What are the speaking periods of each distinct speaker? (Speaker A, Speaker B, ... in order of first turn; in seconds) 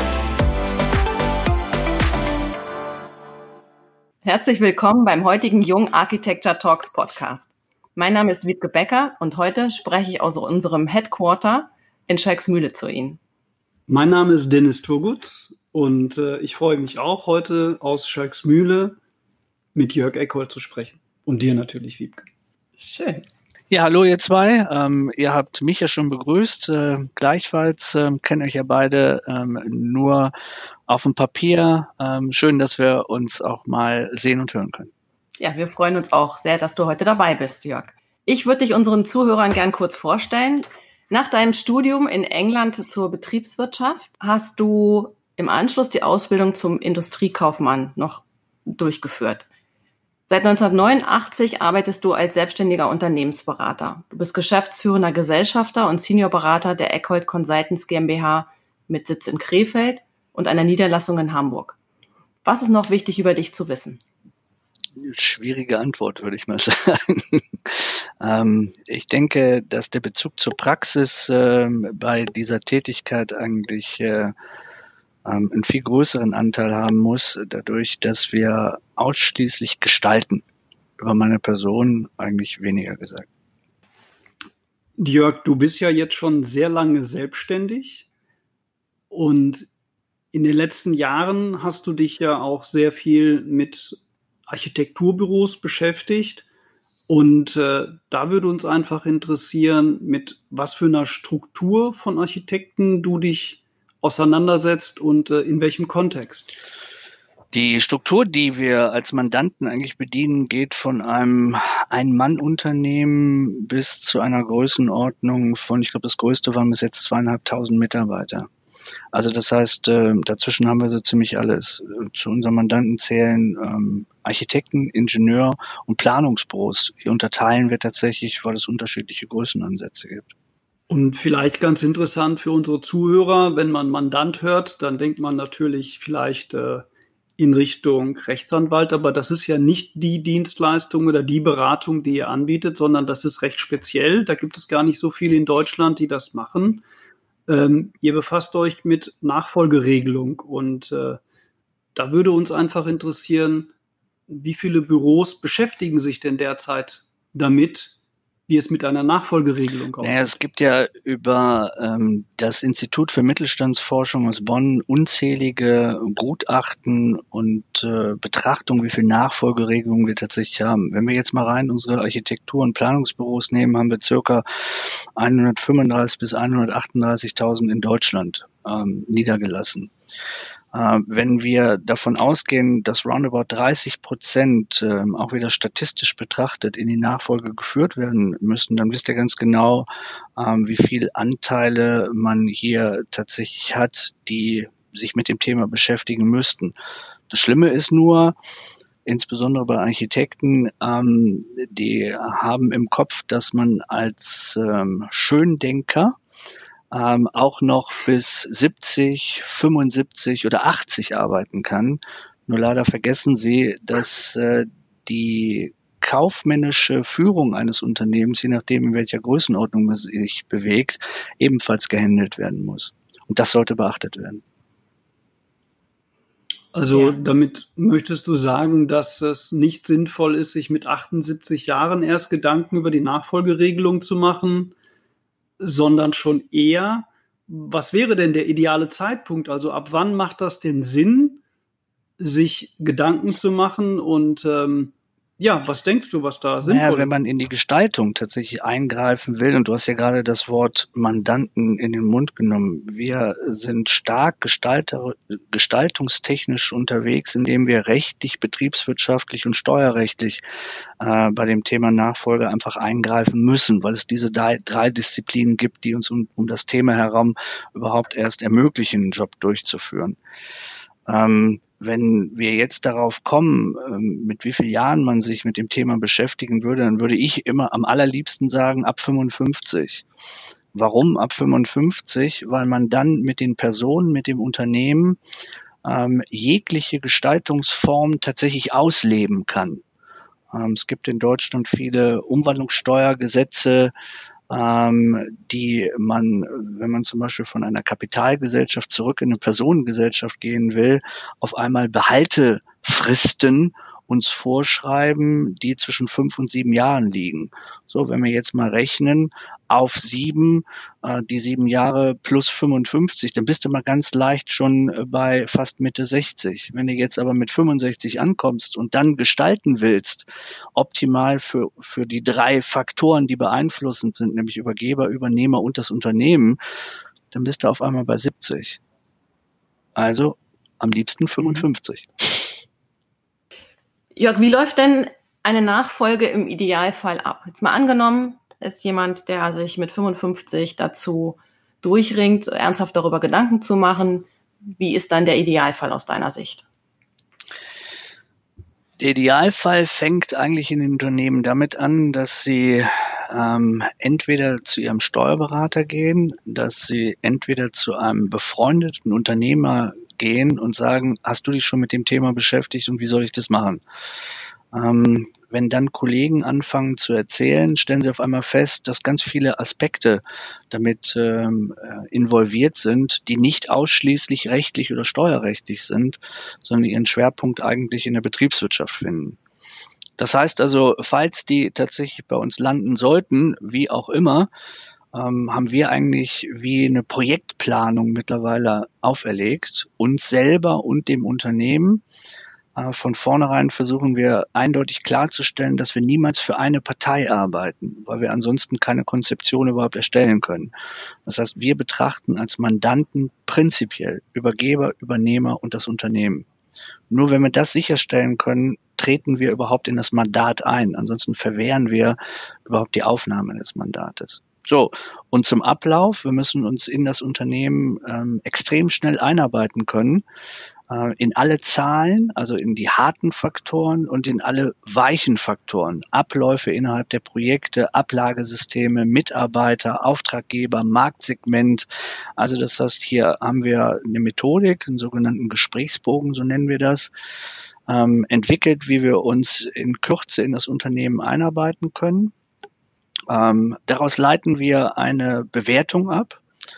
Speaker A: 4.2-13.2, 22.8-23.2, 35.4-49.5, 50.3-61.8, 62.4-64.0, 226.9-227.2, 334.1-346.6
Speaker B: 13.9-19.0, 19.8-22.3, 85.0-88.1, 89.1-89.7, 90.3-94.0, 94.5-96.5, 97.1-106.5, 130.9-136.9, 137.4-146.8, 147.5-151.2, 151.9-153.7, 154.3-157.9, 158.5-160.3, 226.7-234.7, 235.6-241.4, 242.2-247.1
Speaker C: 23.7-30.3, 30.9-34.9, 65.0-74.3, 75.2-80.4, 81.0-83.3, 107.5-118.5, 119.1-130.3, 160.0-179.9, 180.7-196.8, 197.3-198.3, 199.1-206.2, 206.9-224.4, 246.6-260.4, 261.0-270.2, 271.1-280.1, 280.7-285.2, 285.8-289.8, 290.5-293.9, 294.5-326.6, 327.3-328.8, 330.0-332.6, 349.0-363.8, 364.7-379.4, 380.2-384.5, 385.1-392.0, 392.8-400.7, 401.2-406.5, 407.1-420.2, 420.9-437.1, 437.9-442.3, 443.3-446.4